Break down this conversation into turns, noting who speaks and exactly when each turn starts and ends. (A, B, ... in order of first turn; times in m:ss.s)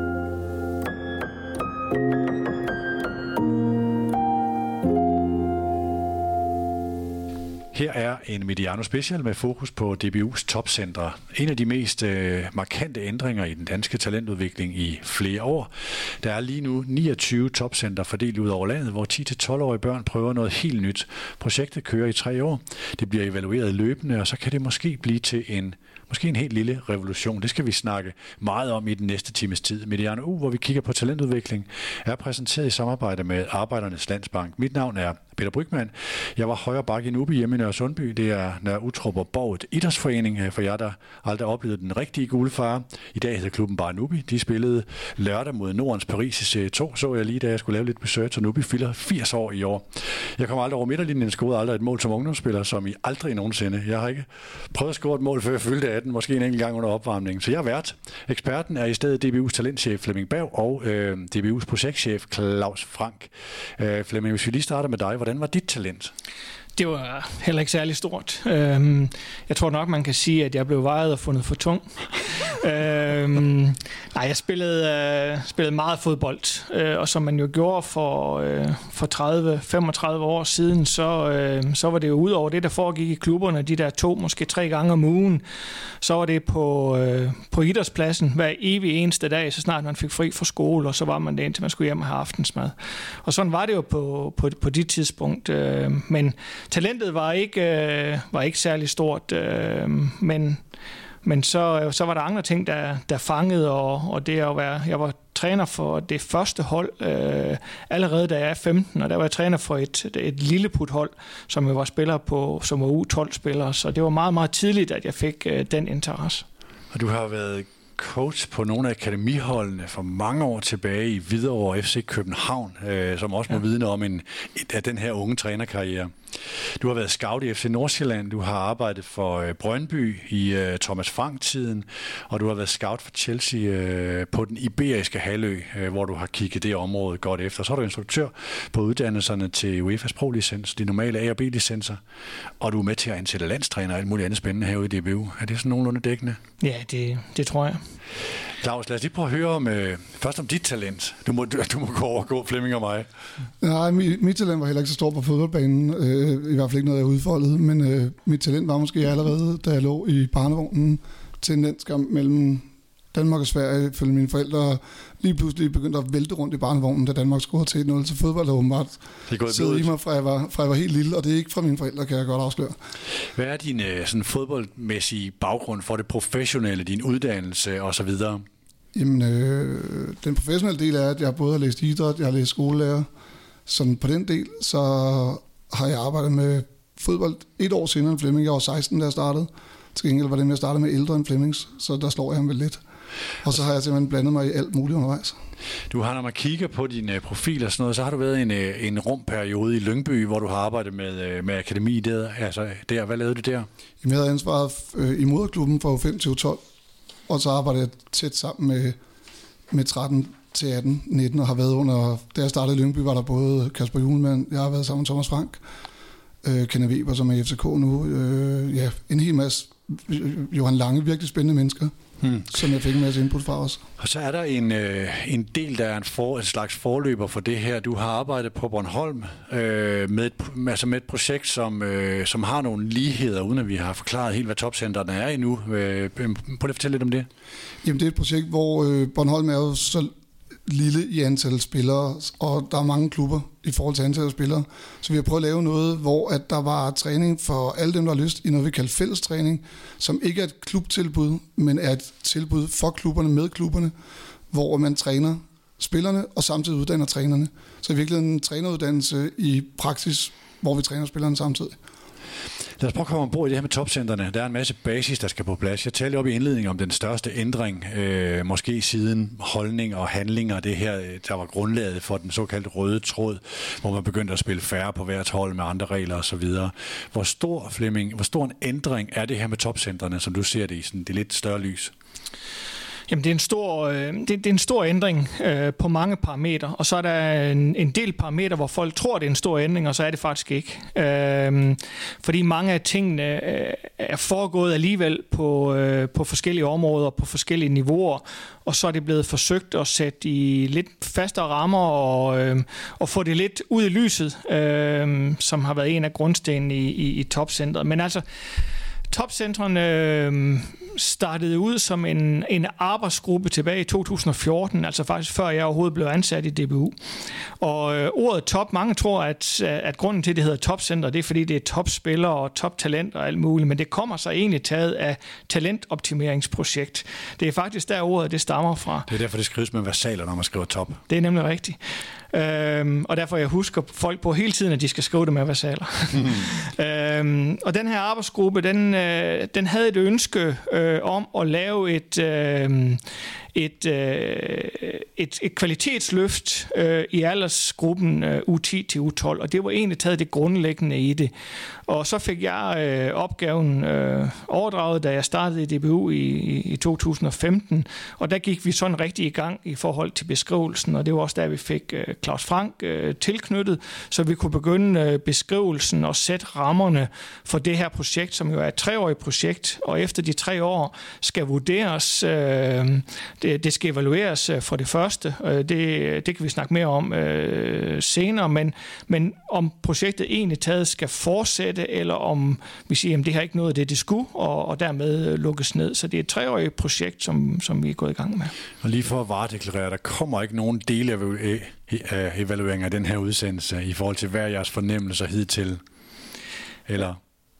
0:07.7-0:15.7 A
0:16.2-1:06.1 A
1:06.8-1:25.4 B
1:26.0-1:40.6 B
1:41.2-1:56.4 B
1:56.9-2:22.0 A
2:22.6-2:26.4 A
2:26.6-2:27.8 B
2:28.6-2:33.1 A
2:33.6-2:52.8 C
2:49.3-2:49.9 A
2:53.3-2:58.4 A
2:59.0-3:03.1 C
3:03.7-3:12.8 C
3:13.4-3:15.4 C
3:15.9-3:23.7 A
3:24.0-3:26.6 C
3:27.3-3:29.0 C
3:29.7-3:35.6 C
3:36.4-3:41.9 C
3:42.2-3:42.5 A
3:42.5-3:43.8 C
3:44.0-3:57.3 A
3:57.8-4:00.1 C
4:00.7-4:13.9 C
4:14.5-4:21.8 C
4:22.8-4:41.9 A
4:43.1-5:08.2 B
5:09.1-5:17.0 B
5:17.6-5:29.1 B
5:29.1-5:31.0 A
5:31.1-5:31.8 B
5:32.3-5:43.0 B
5:43.5-5:51.3 B
5:51.9-6:28.5 B
6:28.8-6:35.8 A
6:36.9-6:37.2 A